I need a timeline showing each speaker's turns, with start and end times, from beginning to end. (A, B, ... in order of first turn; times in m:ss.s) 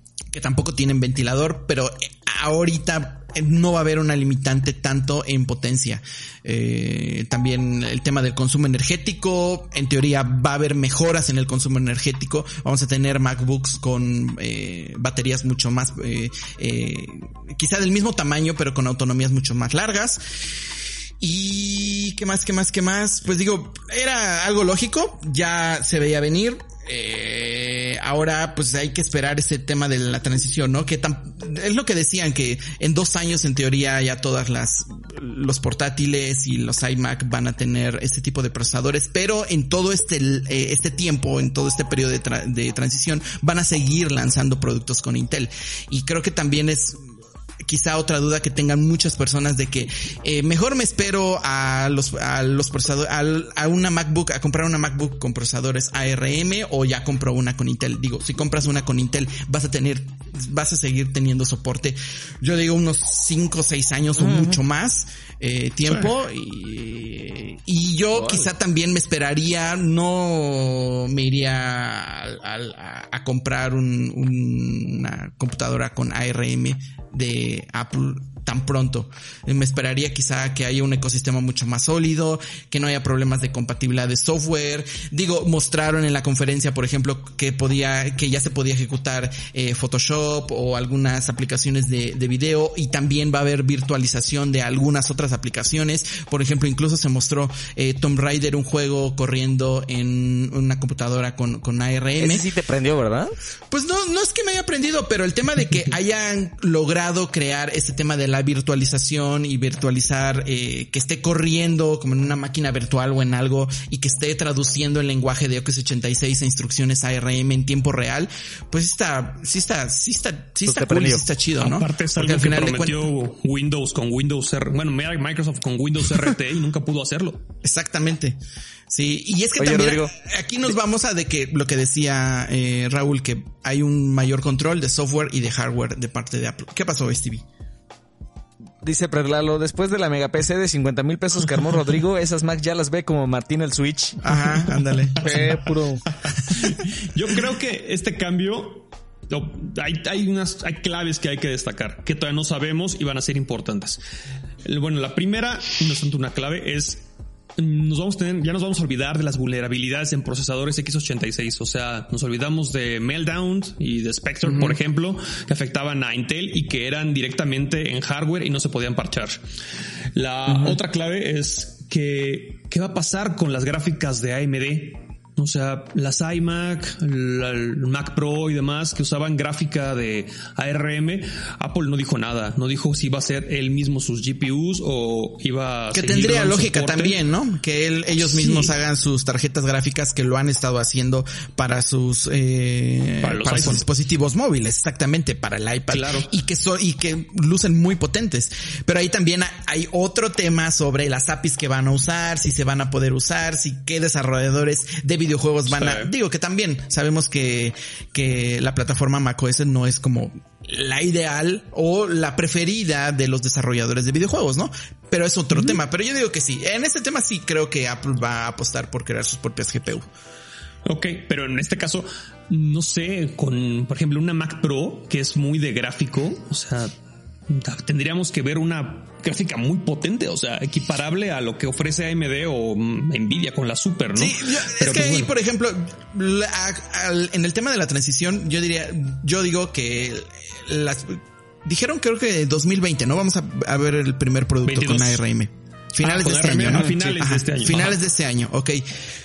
0:00.3-0:20.2 A
0:21.2-0:47.0 A
0:47.6-1:42.5 A
1:04.2-1:04.6 B
1:08.1-1:08.5 B
1:42.2-1:43.3 B
1:43.7-2:03.0 A
2:00.6-2:01.2 B
2:01.6-2:07.4 C
2:07.6-2:08.4 A
2:08.9-2:17.4 A
2:09.6-2:10.1 B
2:18.8-2:24.3 B
2:24.2-2:25.2 A
2:25.2-2:25.6 C
2:25.2-2:26.0 B
2:26.5-2:34.0 C
2:34.6-2:37.0 C
2:37.6-2:49.4 C
2:50.1-3:07.2 C
3:05.9-3:40.0 A
3:08.2-3:08.7 C
3:13.2-3:13.9 C
3:15.9-3:16.3 C
3:25.7-3:26.1 C
3:40.8-3:46.9 C
3:47.5-3:55.3 C
3:54.1-4:08.8 A
4:04.6-4:05.2 C
4:06.0-4:08.0 C